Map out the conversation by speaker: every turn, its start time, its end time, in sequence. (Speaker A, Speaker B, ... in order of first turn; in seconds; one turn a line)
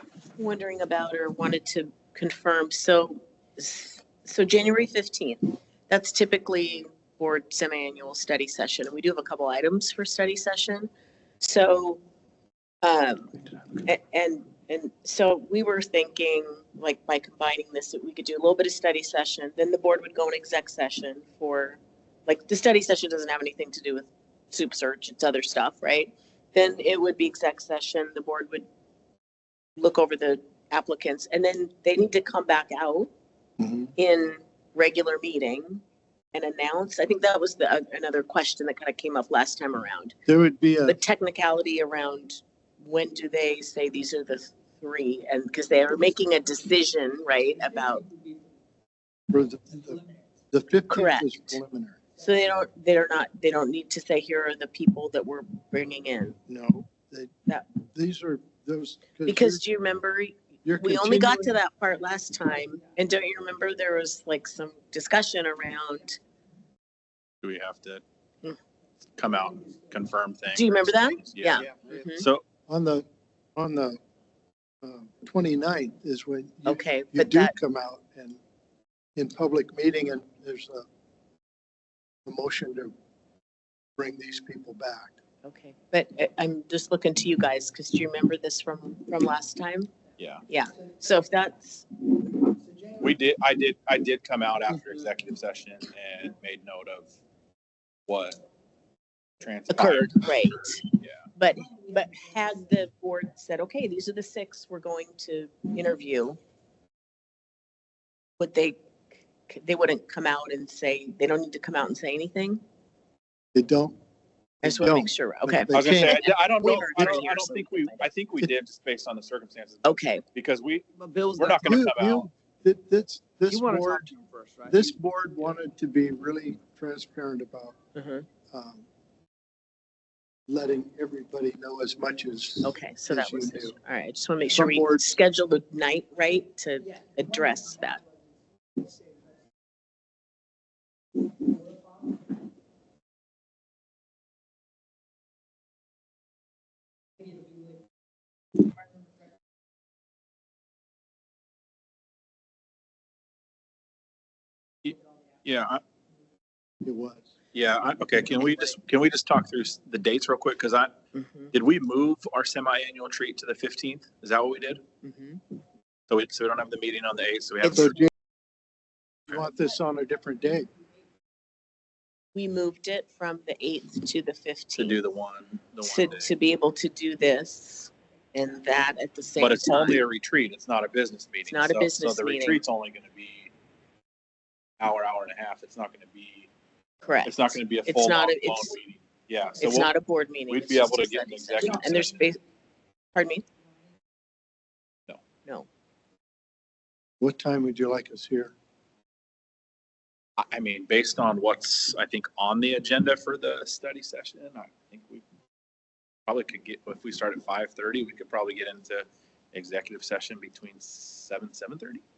Speaker A: 0.4-12.0
Speaker A: 12.8-13.3
Speaker A: 13.8-28.7
Speaker A: 29.8-33.1
Speaker B: 33.6-33.9
Speaker A: 34.0-35.8
Speaker A: 36.3-40.1
Speaker B: 40.3-41.0
Speaker A: 40.9-48.1
Speaker B: 49.3-52.0
Speaker A: 50.9-51.5
Speaker A: 52.2-56.4
Speaker B: 56.5-57.3
Speaker B: 57.9-59.6
Speaker A: 59.3-66.2
Speaker B: 60.6-61.5
Speaker C: 67.4-68.0
Speaker C: 69.2-71.6
Speaker A: 70.5-72.3
Speaker B: 72.7-74.0
Speaker B: 74.8-78.4
Speaker A: 76.7-77.5
Speaker B: 79.2-80.8
Speaker B: 82.3-82.9
Speaker B: 84.0-85.2
Speaker A: 85.4-89.9
Speaker C: 90.2-90.4
Speaker A: 90.5-92.2
Speaker C: 93.0-97.1
Speaker C: 98.1-98.4
Speaker C: 99.4-101.2
Speaker A: 99.7-106.4
Speaker A: 108.4-108.8
Speaker A: 109.5-112.6
Speaker B: 113.5-114.0
Speaker B: 114.6-116.2
Speaker A: 114.6-118.1
Speaker C: 115.7-122.3
Speaker A: 119.8-120.2
Speaker D: 121.0-121.6
Speaker B: 121.6-124.1
Speaker D: 123.5-124.9
Speaker B: 124.7-127.8
Speaker A: 128.0-128.3
Speaker B: 128.5-128.8
Speaker B: 130.5-133.8
Speaker A: 132.6-138.0
Speaker B: 134.5-135.0
Speaker C: 154.8-155.8
Speaker B: 156.8-157.3
Speaker C: 157.5-160.9
Speaker A: 161.1-161.5
Speaker C: 161.5-164.8
Speaker A: 165.0-165.4
Speaker C: 166.1-168.1
Speaker A: 167.6-168.1
Speaker B: 169.3-170.7
Speaker A: 172.3-175.0
Speaker C: 174.8-176.3
Speaker A: 175.8-180.0
Speaker C: 179.4-183.5
Speaker A: 181.5-182.6
Speaker C: 184.8-186.5
Speaker A: 187.0-188.8
Speaker C: 187.2-189.9
Speaker A: 189.6-192.4
Speaker C: 190.5-192.3
Speaker A: 193.2-193.4
Speaker B: 197.2-198.5
Speaker C: 200.4-205.2
Speaker C: 206.3-212.0